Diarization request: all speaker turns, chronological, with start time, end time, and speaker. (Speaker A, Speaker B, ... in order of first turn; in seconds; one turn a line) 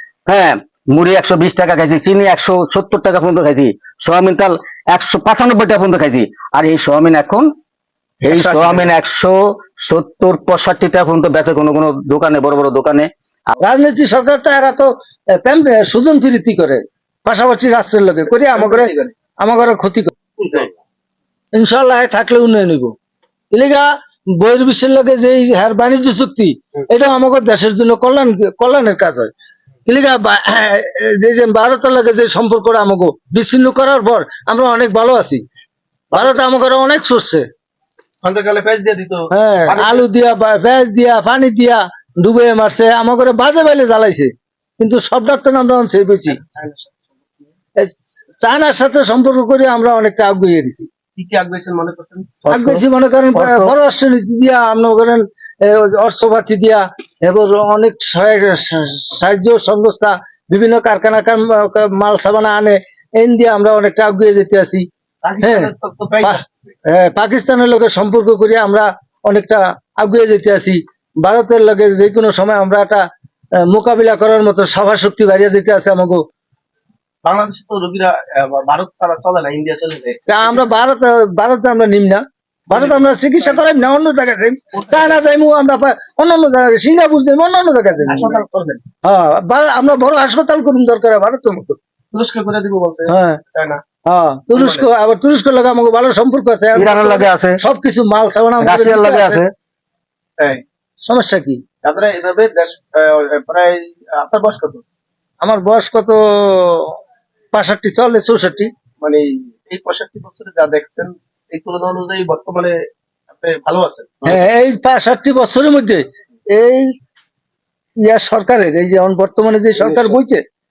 Speaker A: 0.3-7.5
Speaker A: 8.2-13.5
Speaker B: 8.3-8.9
Speaker C: 13.6-20.1
Speaker B: 18.5-19.1
Speaker B: 20.4-20.7
Speaker C: 21.5-22.9
Speaker C: 23.5-29.3
Speaker C: 29.9-35.4
Speaker B: 36.1-36.4
Speaker C: 36.1-37.5
Speaker B: 38.2-40.1
Speaker C: 39.3-46.4
Speaker B: 46.4-47.2
Speaker C: 47.8-50.9
Speaker B: 51.2-52.4
Speaker C: 52.5-64.8
Speaker A: 52.5-52.8
Speaker A: 53.4-53.7
Speaker B: 65.2-66.7
Speaker C: 65.4-65.7
Speaker C: 66.2-73.0
Speaker C: 73.7-76.2
Speaker B: 77.2-80.6
Speaker C: 80.3-88.4
Speaker B: 82.7-83.7
Speaker B: 84.8-85.1
Speaker B: 88.0-88.8
Speaker C: 89.0-91.8
Speaker B: 92.1-93.8
Speaker C: 93.1-93.4
Speaker C: 94.1-99.4
Speaker B: 94.5-94.9
Speaker A: 96.8-97.6
Speaker A: 98.6-99.5
Speaker C: 101.0-101.6
Speaker B: 101.8-104.8
Speaker C: 105.4-107.0
Speaker C: 107.5-108.7
Speaker B: 109.0-112.8
Speaker B: 113.3-114.4
Speaker C: 114.2-116.9
Speaker C: 118.0-120.4
Speaker B: 119.8-120.2